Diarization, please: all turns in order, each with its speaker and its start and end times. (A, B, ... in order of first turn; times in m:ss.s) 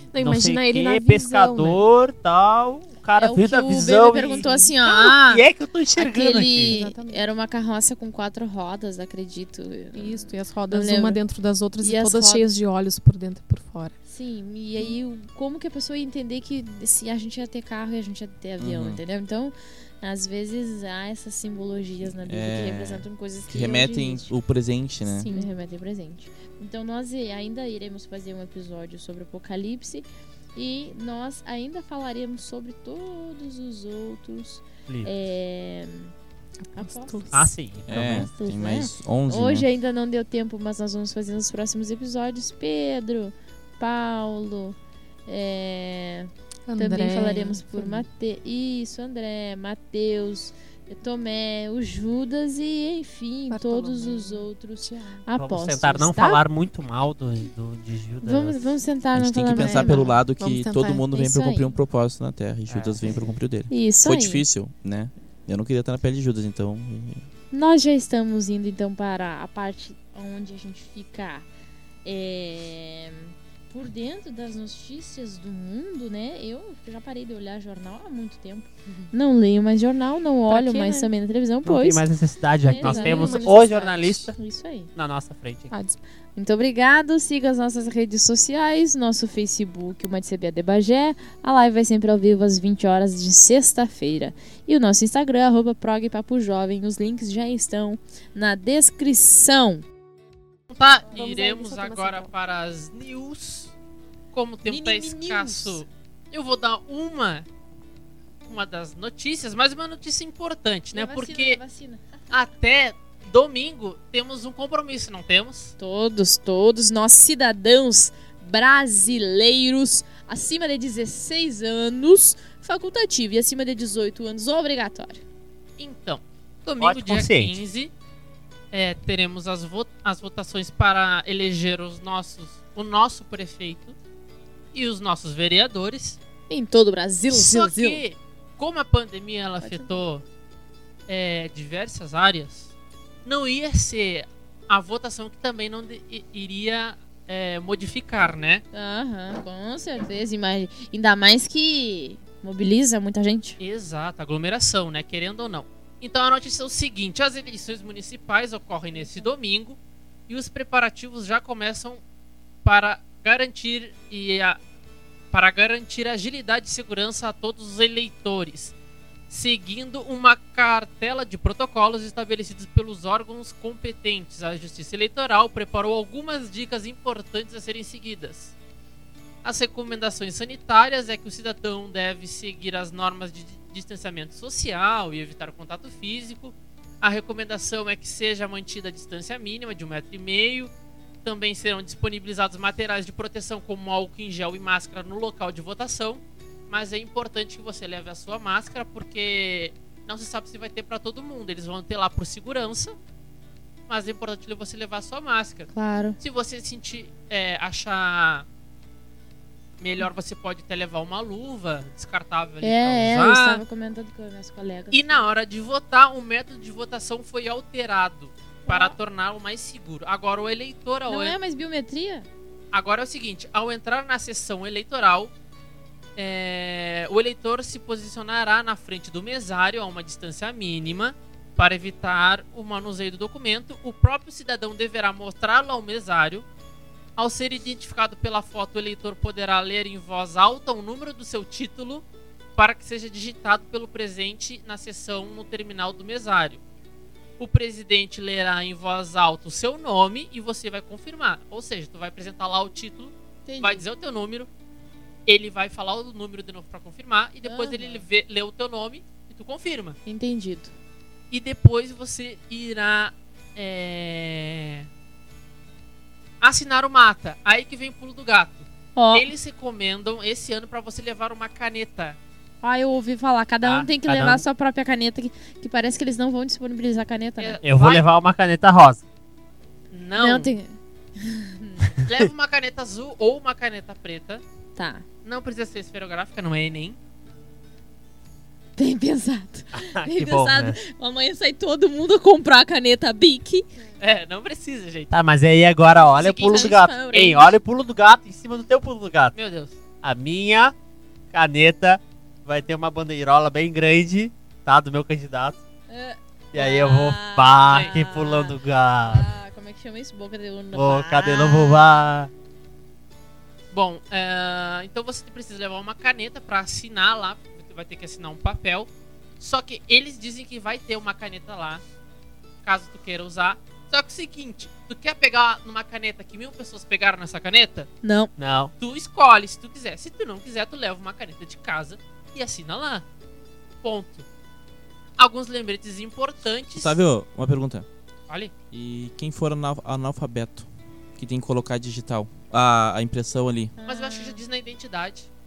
0:00.1-0:01.8 A
0:00.1-0:06.8 B
0:03.2-0:05.4 C
0:04.4-0:04.7 A
0:06.0-0:11.2 C
0:06.7-0:07.2 A
0:09.9-0:13.9 A
0:11.8-0:12.5 C
0:14.1-0:24.3 C
0:18.6-0:19.0 D
0:22.0-0:25.3 D
0:25.0-0:25.5 A
0:25.3-0:36.1 C
0:34.9-0:35.1 B
0:36.6-0:37.4 A
0:36.8-0:56.4 C
0:37.3-0:38.3 B
0:37.9-0:39.7 D
0:46.7-0:48.0 A
0:53.5-0:55.2 A
0:55.3-0:58.7 B
0:58.2-1:00.2 C
0:59.1-1:07.2 D
0:59.5-1:01.0 A
1:01.1-1:01.8 C
1:02.7-1:03.4 B
1:03.7-1:04.4 C
1:07.5-1:11.4 C
1:12.0-1:22.0 C
1:20.5-1:21.1 A
1:21.6-1:24.4 B
1:22.7-1:24.9 C
1:22.7-1:23.7 A
1:25.0-1:25.7 B
1:25.7-1:26.0 A
1:26.4-1:39.8 C
1:40.7-1:43.7 E
1:41.1-1:42.3 C
1:44.3-1:47.5 E
1:44.6-1:45.8 C
1:48.4-1:51.6 E
1:50.9-1:52.3 C
1:52.3-1:55.7 E
1:55.8-2:05.2 C
2:05.8-2:07.9 E
2:06.8-2:07.6 B
2:08.7-2:14.0 E
2:14.7-2:16.2 E
2:16.5-2:18.0 C
2:17.3-2:20.2 E
2:19.6-2:20.0 C
2:21.1-2:22.7 E
2:23.2-2:28.6 E
2:28.7-2:33.6 C
2:33.6-2:42.0 E
2:38.9-2:39.3 C
2:42.6-2:44.6 E
2:45.3-2:48.7 E
2:49.3-2:58.5 E
2:59.4-3:10.7 E
3:11.2-3:23.0 E
3:23.9-3:28.4 E
3:25.7-3:26.2 C
3:29.8-3:33.6 E
3:32.6-3:35.2 C
3:34.9-3:41.3 E
3:38.6-3:39.0 C
3:41.1-3:42.3 C
3:42.7-3:45.3 E
3:46.2-3:56.4 E
3:57.2-4:02.0 E
4:02.6-4:06.6 E
4:07.4-4:14.5 E
4:13.4-4:13.8 C
4:15.2-4:20.0 E
4:17.4-4:18.0 C
4:20.0-4:20.7 C
4:21.3-4:24.9 E
4:26.4-4:32.2 E
4:28.9-4:29.3 C
4:32.6-4:37.6 C
4:33.6-4:33.9 E
4:34.1-4:34.4 B
4:37.4-4:38.0 E
4:37.6-4:39.0 B
4:39.9-4:40.5 E
4:40.2-4:41.9 C
4:42.0-4:44.4 E
4:44.8-4:45.0 C
4:45.2-4:47.0 E
4:48.8-4:53.7 C
4:49.7-4:50.8 B
4:54.0-4:55.1 E
4:55.1-4:59.3 B
4:56.1-4:56.8 E
4:56.4-4:57.5 C
4:59.3-4:59.8 E
5:00.0-5:00.7 B
5:01.3-5:05.6 B
5:05.9-5:08.5 C
5:06.5-5:09.3 B
5:07.7-5:08.0 E
5:09.1-5:12.0 C
5:10.7-5:12.3 B
5:13.7-5:21.8 E
5:22.6-5:27.9 E
5:28.0-5:28.3 C
5:28.4-5:28.7 B
5:28.8-5:33.0 E
5:33.8-5:34.2 E
5:35.2-5:37.0 E
5:36.7-5:37.9 D
5:38.7-5:43.7 D
5:43.8-5:44.4 C
5:43.8-5:45.3 E